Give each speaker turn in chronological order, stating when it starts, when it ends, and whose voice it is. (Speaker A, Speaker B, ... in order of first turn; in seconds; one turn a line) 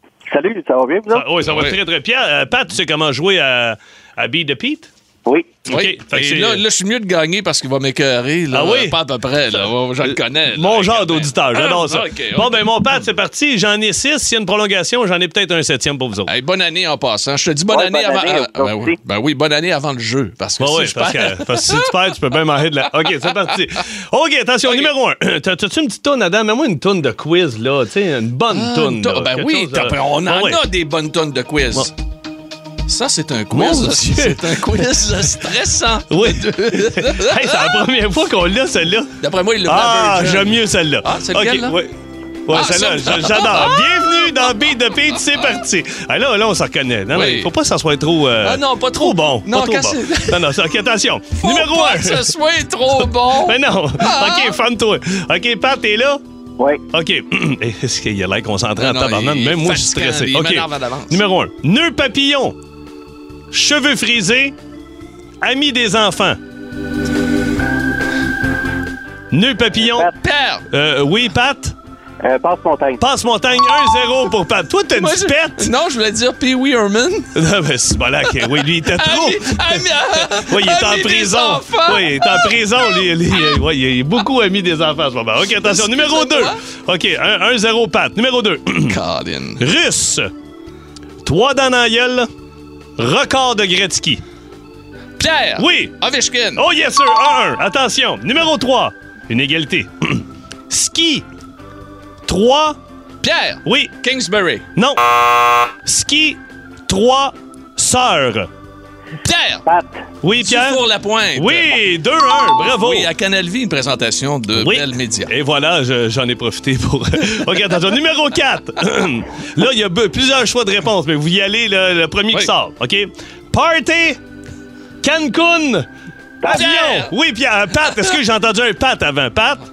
Speaker A: 0.3-1.2
Speaker B: 1.1-4.9
Speaker C: 1.4-1.8
Speaker A: 5.2-5.5
Speaker C: 5.7-12.7
Speaker B: 5.7-6.6
Speaker B: 8.5-9.0
Speaker B: 9.5-16.3
Speaker C: 16.2-21.9
Speaker A: 17.7-18.9
Speaker B: 20.6-30.6
Speaker C: 28.5-31.9
Speaker C: 32.9-37.8
Speaker B: 33.5-34.5
Speaker B: 36.1-39.1
Speaker C: 39.2-41.8
Speaker B: 39.6-41.9
Speaker B: 42.5-52.3
Speaker C: 42.5-44.5
Speaker C: 47.1-47.5
Speaker C: 48.4-50.6
Speaker C: 51.4-54.6
Speaker B: 53.0-56.2
Speaker B: 56.9-62.5
Speaker C: 58.8-61.2
Speaker B: 63.5-64.5
Speaker B: 65.4-66.4
Speaker B: 69.3-70.1
Speaker C: 70.2-70.6
Speaker B: 70.7-71.7
Speaker A: 72.2-73.0
Speaker B: 73.0-75.7
Speaker C: 74.9-77.3
Speaker B: 77.3-89.0
Speaker C: 78.4-83.6
Speaker C: 85.5-86.6
Speaker C: 88.8-89.6
Speaker B: 89.6-90.3
Speaker B: 91.2-92.3
Speaker B: 93.0-94.2
Speaker C: 95.2-96.6
Speaker B: 95.6-96.0
Speaker B: 96.5-101.2
Speaker B: 102.2-102.8
Speaker C: 103.2-104.7
Speaker B: 103.7-103.9
Speaker B: 104.8-105.0
Speaker B: 105.8-108.5
Speaker C: 109.2-109.7
Speaker A: 109.7-110.0
Speaker B: 110.2-110.8
Speaker C: 110.4-111.8
Speaker B: 111.3-113.1
Speaker C: 112.6-115.3
Speaker B: 114.5-124.2
Speaker B: 125.0-125.9
Speaker A: 126.4-126.7
Speaker B: 126.4-129.6
Speaker C: 126.5-127.1